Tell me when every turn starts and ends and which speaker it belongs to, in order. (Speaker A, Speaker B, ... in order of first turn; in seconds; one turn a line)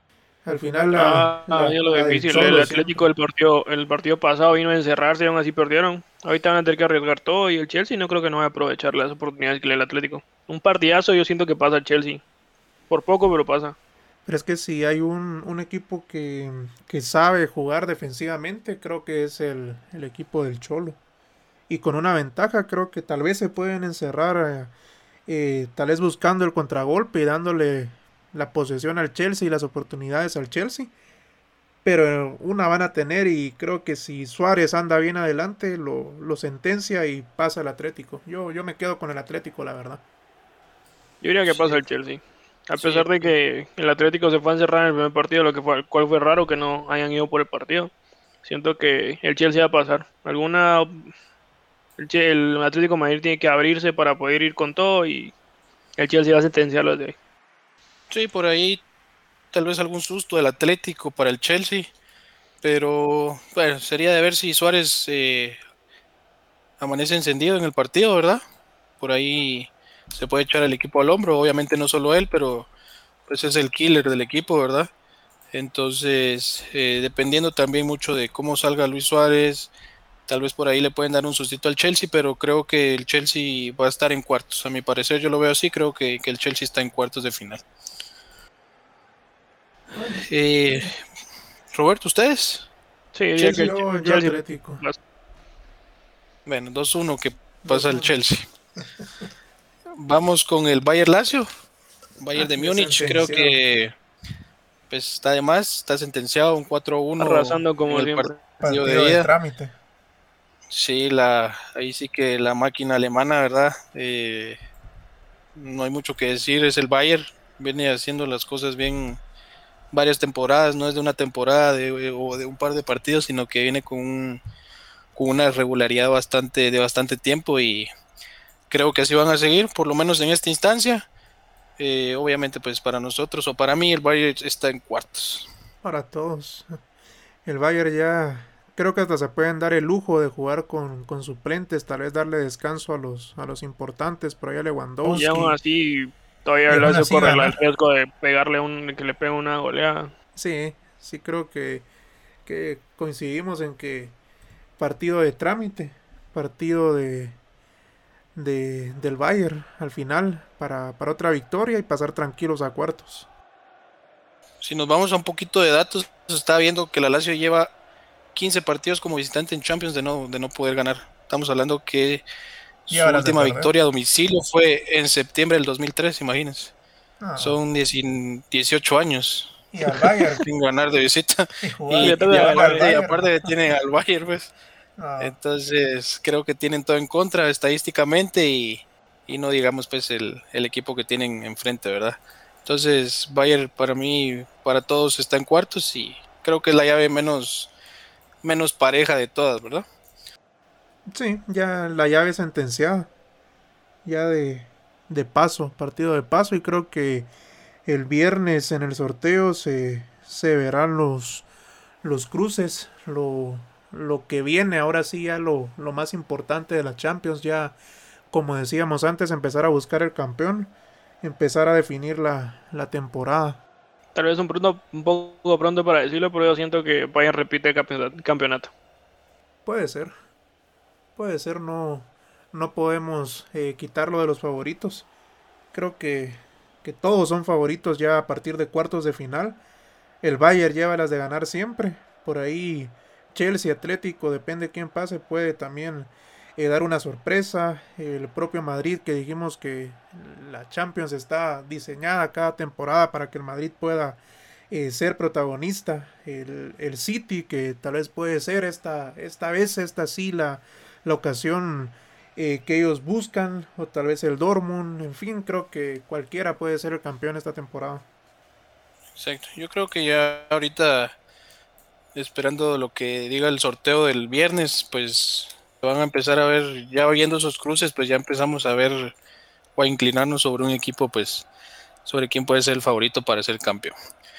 Speaker A: 0.4-3.0
Speaker B: 0.9-12.2
Speaker B: 12.9-13.8
Speaker A: 14.2-21.0
Speaker A: 21.7-24.7
Speaker A: 25.3-30.9
Speaker A: 31.8-40.0
Speaker B: 41.2-47.9
Speaker C: 41.5-41.8
Speaker C: 42.8-43.1
Speaker B: 48.4-51.1
Speaker B: 52.0-55.3
Speaker B: 56.0-57.2
Speaker C: 58.1-58.8
Speaker C: 59.5-61.9
Speaker C: 62.6-65.6
Speaker C: 66.8-68.4
Speaker C: 69.0-72.7
Speaker C: 73.3-74.9
Speaker C: 75.5-79.7
Speaker C: 80.3-87.6
Speaker A: 89.9-90.2
Speaker C: 90.2-91.0
Speaker C: 91.7-92.7
Speaker B: 93.1-95.0
Speaker A: 93.3-94.8
Speaker C: 96.5-98.4
Speaker A: 97.6-98.1
Speaker A: 98.8-99.0
Speaker C: 99.9-101.5
Speaker C: 102.2-103.9
Speaker A: 102.3-103.6
Speaker C: 104.9-109.3
Speaker B: 107.2-108.4
Speaker A: 108.6-109.7
Speaker C: 110.7-114.6
Speaker C: 115.5-119.2
Speaker C: 119.9-124.4
Speaker C: 125.1-127.9
Speaker C: 128.7-131.1
Speaker C: 131.8-135.5
Speaker A: 135.8-136.7
Speaker A: 137.4-145.6
Speaker B: 145.0-150.1
Speaker A: 146.7-147.6
Speaker A: 150.3-151.8
Speaker A: 152.4-154.1
Speaker A: 154.8-157.4
Speaker A: 158.3-163.3
Speaker C: 164.6-167.7
Speaker C: 168.3-172.2
Speaker C: 172.8-176.7
Speaker A: 172.9-173.7
Speaker A: 177.2-177.6
Speaker C: 177.4-184.5
Speaker A: 179.7-180.4
Speaker A: 181.6-183.5
Speaker B: 182.0-183.0
Speaker A: 185.0-185.3
Speaker C: 185.2-197.7
Speaker C: 198.4-199.8
Speaker A: 201.1-203.1
Speaker A: 204.0-207.3
Speaker A: 207.8-211.4
Speaker A: 212.0-217.8
Speaker A: 218.3-223.6
Speaker B: 224.1-228.7
Speaker A: 229.7-230.1
Speaker A: 231.2-235.1
Speaker A: 235.7-239.6
Speaker A: 240.2-268.0
Speaker C: 269.1-271.1
Speaker C: 272.1-279.1
Speaker C: 279.8-281.5
Speaker C: 282.0-283.9